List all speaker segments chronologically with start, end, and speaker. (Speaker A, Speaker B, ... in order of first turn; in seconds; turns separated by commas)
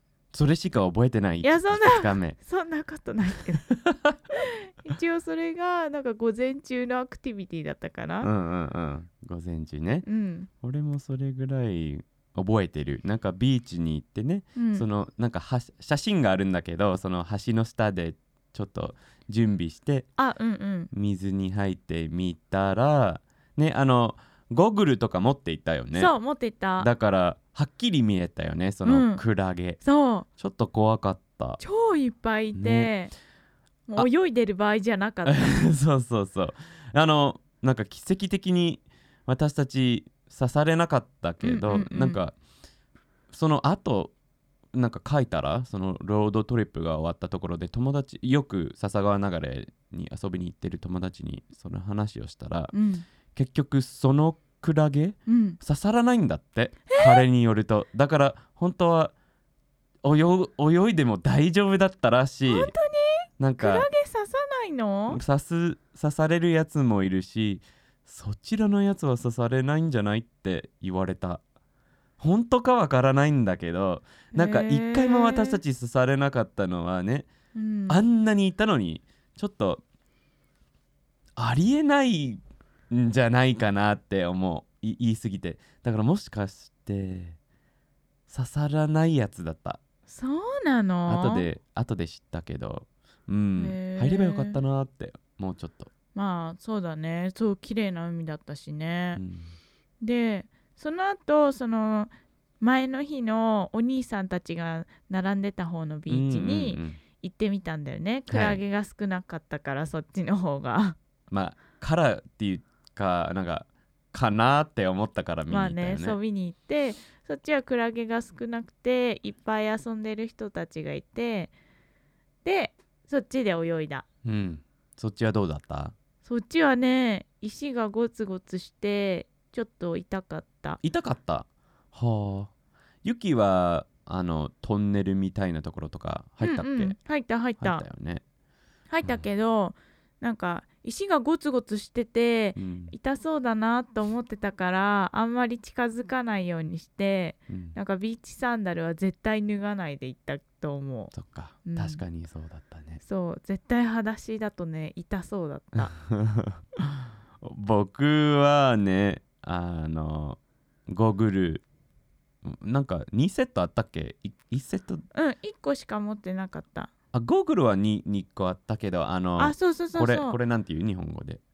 Speaker A: 0.3-2.4, Speaker B: 1.4-3.7, Speaker A: 3.7-4.2, Speaker B: 4.3-8.3, Speaker A: 8.2-10.1, Speaker B: 10.1-10.5, Speaker A: 10.6-20.1, Speaker B: 14.6-14.9, Speaker B: 20.2-20.9, Speaker A: 20.9-26.1, Speaker B: 25.9-26.9, Speaker A: 26.8-29.8, Speaker B: 28.8-29.2, Speaker B: 29.8-30.3, Speaker A: 30.4-31.6, Speaker B: 31.6-33.1, Speaker A: 32.5-33.0, Speaker B: 33.9-35.6, Speaker A: 35.3-42.4, Speaker B: 41.4-42.2, Speaker A: 43.3-44.1, Speaker A: 44.7-52.7, Speaker B: 52.7-53.0, Speaker A: 53.3-59.1, Speaker B: 55.3-55.6, Speaker B: 56.9-57.2, Speaker A: 60.0-62.7, Speaker B: 62.5-65.2, Speaker A: 63.4-63.9, Speaker A: 65.1-71.4, Speaker A: 72.2-77.3, Speaker B: 74.3-75.6, Speaker B: 77.5-78.0, Speaker A: 77.9-79.8, Speaker A: 81.4-82.4, Speaker A: 82.9-87.4, Speaker A: 88.3-89.8, Speaker B: 90.1-91.5, Speaker A: 91.1-95.9, Speaker B: 93.6-94.6, Speaker B: 96.2-99.2, Speaker A: 99.2-99.5, Speaker B: 100.0-111.0, Speaker A: 106.1-107.0, Speaker A: 108.3-108.6, Speaker A: 111.3-116.2, Speaker B: 115.5-121.5, Speaker B: 122.5-124.1, Speaker A: 124.2-126.0, Speaker B: 126.2-130.8, Speaker A: 130.8-132.5, Speaker A: 133.0-136.9, Speaker B: 136.4-137.8, Speaker A: 137.6-138.2, Speaker B: 138.9-151.1, Speaker A: 142.6-142.9, Speaker A: 147.5-147.8, Speaker A: 151.1-153.0, Speaker B: 151.7-152.0, Speaker B: 153.0-155.9, Speaker A: 155.8-156.7, Speaker A: 157.4-161.6, Speaker A: 162.4-165.0, Speaker B: 165.1-166.9, Speaker A: 167.1-171.4, Speaker B: 169.4-170.4